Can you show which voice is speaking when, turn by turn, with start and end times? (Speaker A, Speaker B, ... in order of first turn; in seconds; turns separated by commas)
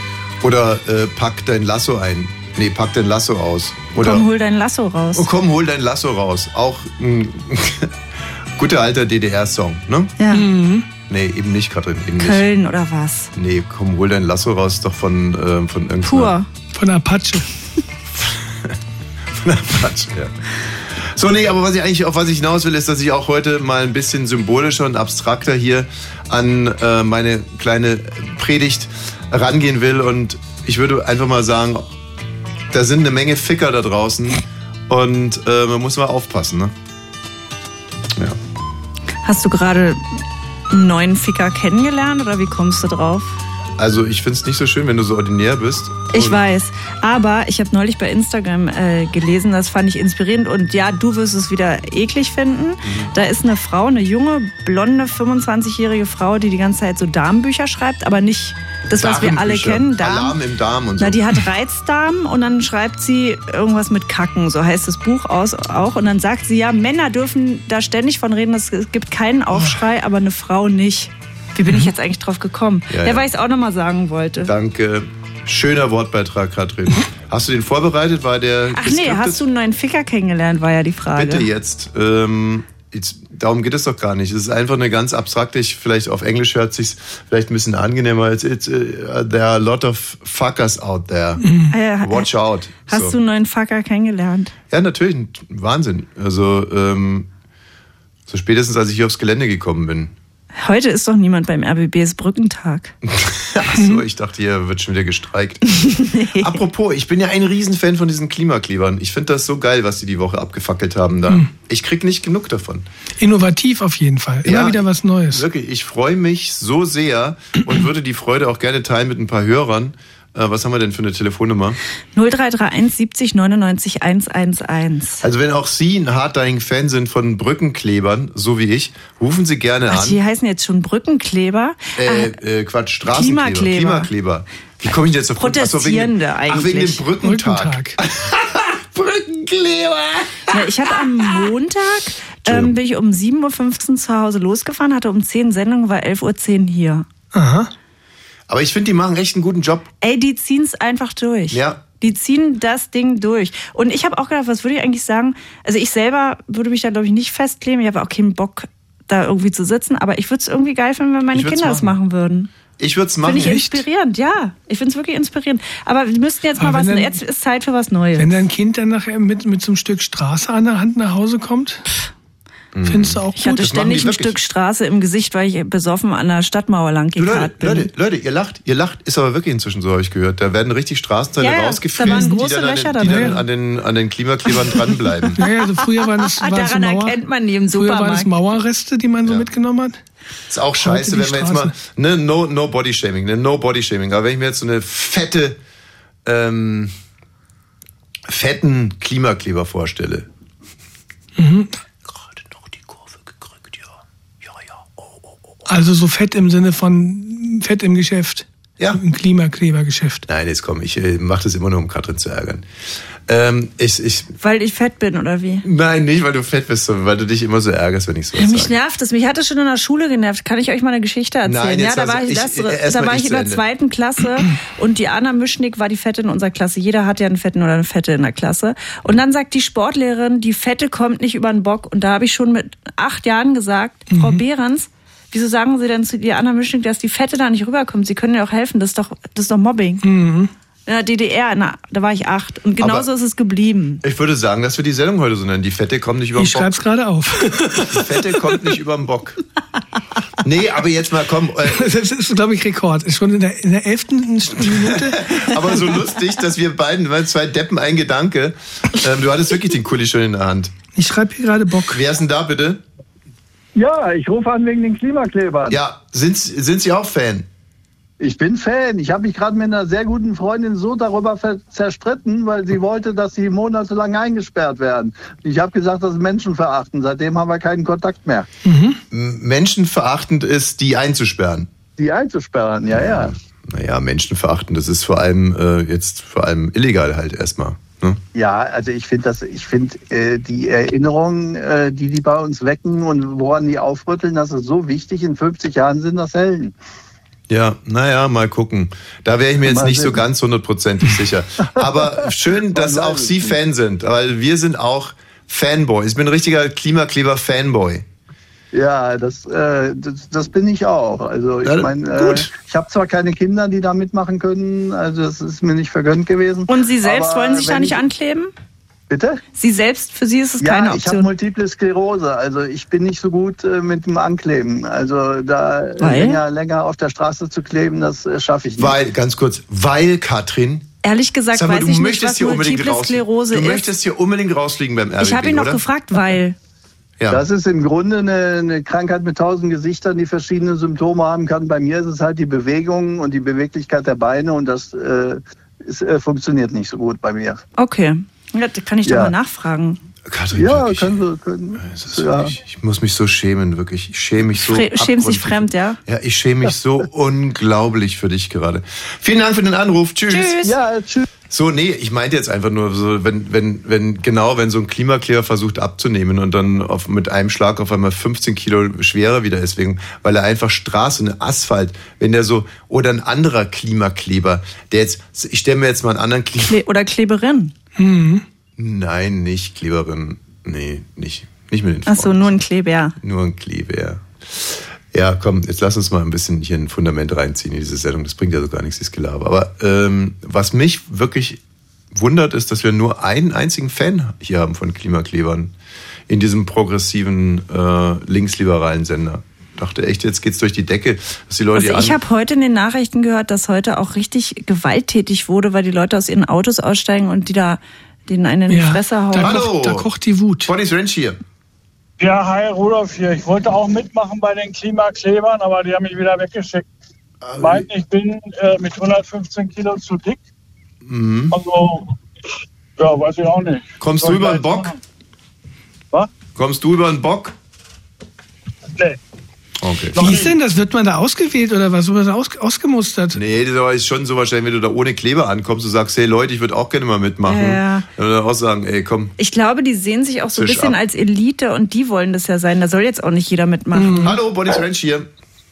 Speaker A: 0.4-4.2, Speaker B: 4.0-5.3, Speaker A: 5.1-7.9, Speaker A: 8.6-10.2, Speaker B: 10.2-10.5, Speaker C: 10.3-10.9, Speaker A: 11.1-12.4, Speaker B: 12.2-13.3, Speaker A: 13.3-16.3, Speaker B: 16.0-16.5, Speaker C: 16.7-17.4, Speaker A: 18.1-18.8, Speaker A: 19.3-31.9, Speaker A: 32.7-36.7, Speaker B: 39.2-40.0, Speaker B: 40.7-43.4, Speaker A: 43.8-46.4, Speaker B: 46.1-60.4, Speaker A: 52.8-53.1, Speaker A: 58.9-61.3, Speaker B: 61.0-74.5, Speaker A: 72.9-73.2, Speaker A: 74.4-79.4, Speaker B: 78.7-81.5, Speaker A: 81.1-91.4, Speaker C: 91.4-91.7, Speaker B: 91.7-92.3, Speaker A: 92.0-93.2, Speaker B: 92.8-94.5, Speaker A: 94.7-97.3, Speaker A: 98.3-100.1, Speaker B: 100.5-102.9, Speaker A: 103.0-112.8, Speaker B: 105.8-106.6, Speaker C: 113.2-115.4, Speaker A: 114.4-121.8, Speaker B: 122.1-125.2, Speaker A: 125.2-130.2, Speaker B: 129.9-132.3, Speaker A: 132.0-140.6, Speaker B: 133.1-134.1, Speaker B: 135.3-137.0, Speaker C: 137.2-138.0, Speaker B: 140.5-147.1, Speaker A: 142.4-142.7, Speaker C: 147.3-147.7, Speaker A: 148.5-149.9, Speaker B: 150.0-162.5, Speaker A: 151.5-151.8, Speaker A: 161.3-161.9, Speaker A: 162.8-163.6, Speaker B: 163.2-168.3, Speaker C: 163.3-163.8, Speaker C: 166.6-167.2, Speaker C: 168.2-171.8, Speaker A: 172.7-174.4, Speaker C: 172.8-173.8, Speaker B: 173.3-177.9, Speaker A: 177.2-185.4, Speaker B: 181.4-183.4, Speaker C: 182.0-182.3, Speaker C: 183.0-183.4, Speaker C: 185.4-187.2, Speaker B: 186.2-188.3, Speaker C: 187.7-190.0, Speaker A: 190.5-195.6, Speaker C: 190.8-191.7, Speaker A: 196.2-196.9, Speaker A: 198.3-200.3, Speaker C: 201.4-201.7, Speaker A: 202.2-203.8, Speaker A: 204.4-205.1, Speaker C: 205.7-210.2, Speaker A: 210.2-212.7, Speaker A: 213.3-214.3, Speaker B: 214.4-215.6, Speaker A: 215.6-218.8, Speaker B: 218.3-240.0, Speaker A: 221.4-223.6, Speaker C: 234.1-234.4, Speaker C: 240.0-240.5, Speaker B: 240.8-244.0, Speaker A: 242.8-243.1, Speaker A: 244.0-246.7, Speaker C: 246.3-248.3, Speaker A: 247.7-249.4, Speaker A: 250.4-251.9, Speaker C: 251.7-256.0, Speaker A: 254.6-260.7, Speaker C: 260.9-262.0, Speaker A: 261.9-262.8, Speaker D: 263.8-265.8, Speaker A: 265.7-267.5, Speaker D: 268.2-278.5, Speaker C: 278.6-279.0, Speaker A: 279.1-281.7, Speaker D: 282.0-283.3, Speaker A: 282.9-288.2, Speaker D: 288.3-296.7, Speaker A: 297.5-308.1, Speaker D: 299.6-300.2, Speaker D: 302.7-303.6, Speaker D: 308.7-318.0, Speaker A: 311.6-312.5, Speaker B: 316.7-318.5, Speaker D: 319.1-319.4, Speaker B: 319.5-321.3, Speaker D: 320.6-328.9, Speaker B: 326.0-326.4, Speaker A: 328.8-330.9, Speaker B: 331.0-333.9, Speaker A: 331.5-335.8, Speaker B: 335.2-336.6, Speaker D: 337.3-347.6, Speaker B: 347.8-350.0, Speaker D: 349.1-349.4, Speaker A: 350.3-351.2, Speaker D: 350.5-352.5, Speaker A: 351.8-360.6, Speaker B: 354.5-356.0, Speaker B: 360.3-360.7, Speaker D: 360.6-361.3, Speaker A: 361.5-376.8, Speaker B: 376.7-377.7, Speaker C: 378.0-378.4, Speaker A: 378.8-382.6, Speaker B: 382.1-383.1, Speaker A: 383.2-391.6, Speaker A: 392.1-395.7, Speaker A: 396.3-402.2, Speaker B: 401.7-409.6, Speaker C: 408.7-410.7, Speaker A: 409.4-410.1, Speaker A: 410.6-411.4, Speaker E: 412.2-416.8, Speaker A: 417.4-417.9, Speaker E: 417.6-420.4, Speaker A: 421.0-421.6, Speaker E: 421.5-422.1, Speaker E: 423.0-425.0, Speaker A: 424.0-424.9, Speaker A: 426.5-427.5, Speaker A: 429.8-430.2, Speaker E: 430.1-430.6, Speaker C: 430.2-433.4, Speaker A: 433.3-439.3, Speaker B: 437.4-438.1, Speaker B: 439.4-444.4, Speaker A: 440.5-441.0, Speaker C: 443.9-444.4, Speaker A: 444.2-445.3